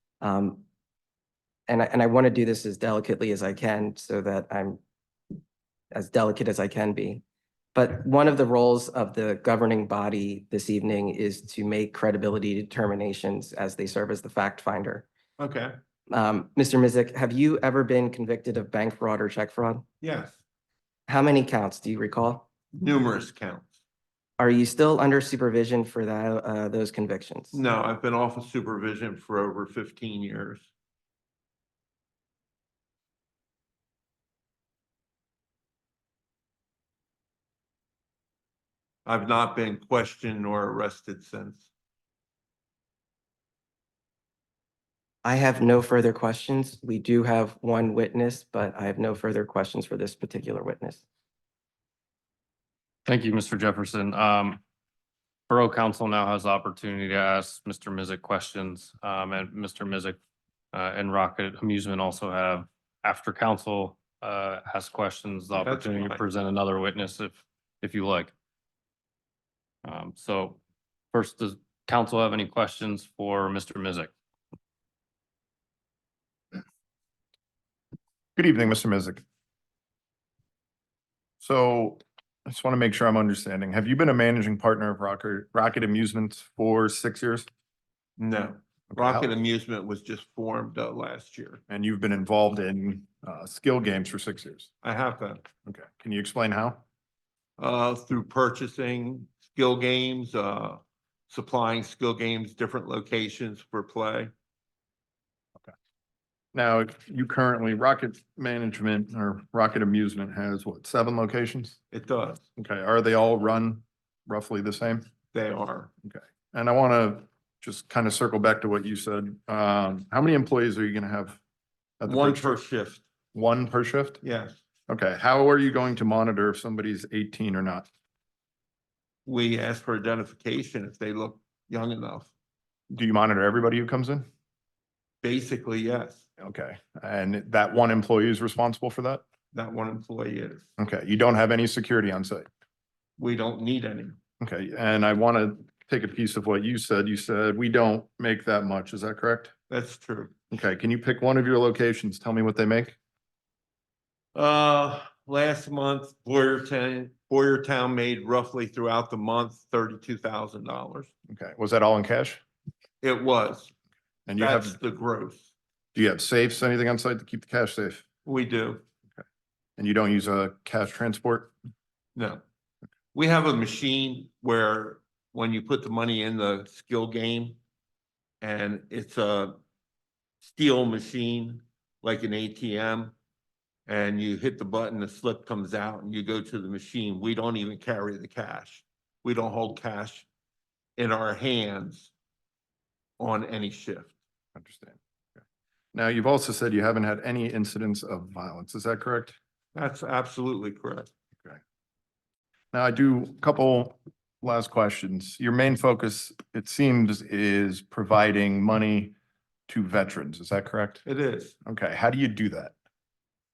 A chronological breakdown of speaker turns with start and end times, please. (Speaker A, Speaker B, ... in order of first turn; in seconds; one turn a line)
Speaker A: 0.2-0.6
Speaker A: 1.7-4.8
Speaker A: 5.9-7.2
Speaker A: 7.8-15.1
Speaker B: 15.4-15.8
Speaker A: 16.1-19.9
Speaker B: 20.0-20.4
Speaker A: 21.1-22.5
Speaker B: 22.8-23.8
Speaker A: 24.4-27.6
Speaker B: 27.5-30.7
Speaker B: 39.1-41.7
Speaker A: 45.2-51.0
Speaker C: 53.1-54.6
Speaker C: 55.5-60.2
Speaker C: 60.7-68.3
Speaker B: 65.6-66.2
Speaker C: 69.8-70.6
Speaker C: 71.1-74.1
Speaker D: 78.4-79.2
Speaker D: 81.4-87.5
Speaker B: 88.2-91.6
Speaker D: 88.9-89.3
Speaker D: 91.7-94.7
Speaker B: 94.8-95.5
Speaker D: 95.7-96.8
Speaker B: 97.6-104.3
Speaker D: 106.5-111.8
Speaker B: 111.9-112.5
Speaker D: 112.6-115.1
Speaker B: 115.3-115.9
Speaker D: 116.0-121.4
Speaker D: 122.0-122.6
Speaker B: 122.1-123.0
Speaker D: 123.3-124.2
Speaker B: 124.2-124.6
Speaker D: 124.9-127.9
Speaker B: 129.3-132.3
Speaker D: 132.9-134.3
Speaker B: 135.2-136.2
Speaker D: 136.4-139.2
Speaker B: 139.5-140.7
Speaker D: 140.8-142.5
Speaker B: 143.2-144.2
Speaker D: 144.4-149.5
Speaker B: 149.7-150.3
Speaker D: 150.5-153.0
Speaker B: 154.3-161.1
Speaker D: 161.3-162.4
Speaker B: 163.0-163.7
Speaker D: 164.3-164.8
Speaker B: 164.4-165.5
Speaker D: 165.9-168.0
Speaker B: 168.2-168.8
Speaker D: 169.8-171.5
Speaker B: 172.2-172.4
Speaker B: 173.1-177.6
Speaker B: 178.4-179.6
Speaker B: 180.4-183.1
Speaker B: 183.9-190.3
Speaker B: 191.0-192.1
Speaker B: 193.2-194.2
Speaker D: 194.6-195.0
Speaker D: 195.9-199.4
Speaker B: 199.7-201.1
Speaker D: 202.7-209.1
Speaker D: 209.7-211.0
Speaker B: 211.1-211.6
Speaker D: 211.7-212.7